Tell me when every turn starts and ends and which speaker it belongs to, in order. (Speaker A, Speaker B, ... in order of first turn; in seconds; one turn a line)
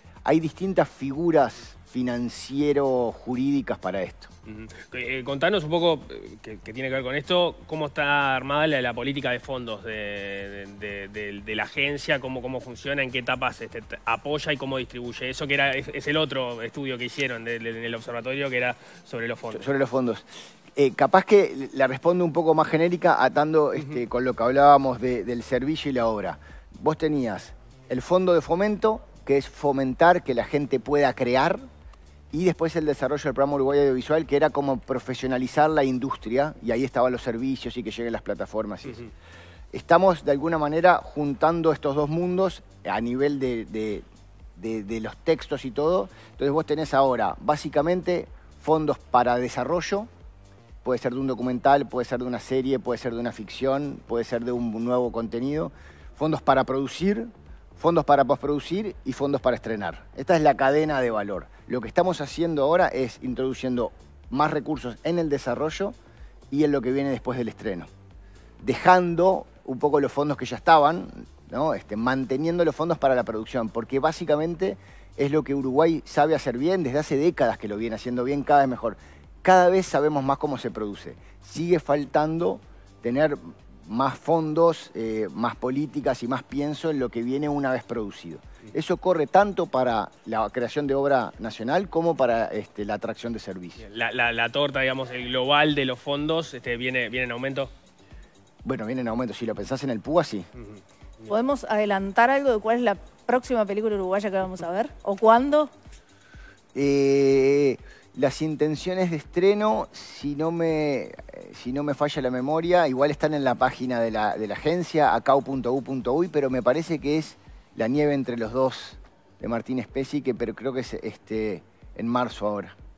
Speaker A: 0.2-4.3
Speaker B: 4.5-19.7
Speaker A: 19.5-31.6
Speaker A: 32.3-39.1
Speaker A: 39.7-44.0
Speaker A: 44.6-50.1
Speaker A: 50.8-66.0
Speaker A: 66.5-67.9
Speaker A: 68.6-93.8
Speaker B: 93.8-97.7
Speaker A: 98.6-100.5
Speaker B: 100.6-101.3
Speaker C: 101.3-105.7
Speaker A: 106.7-122.8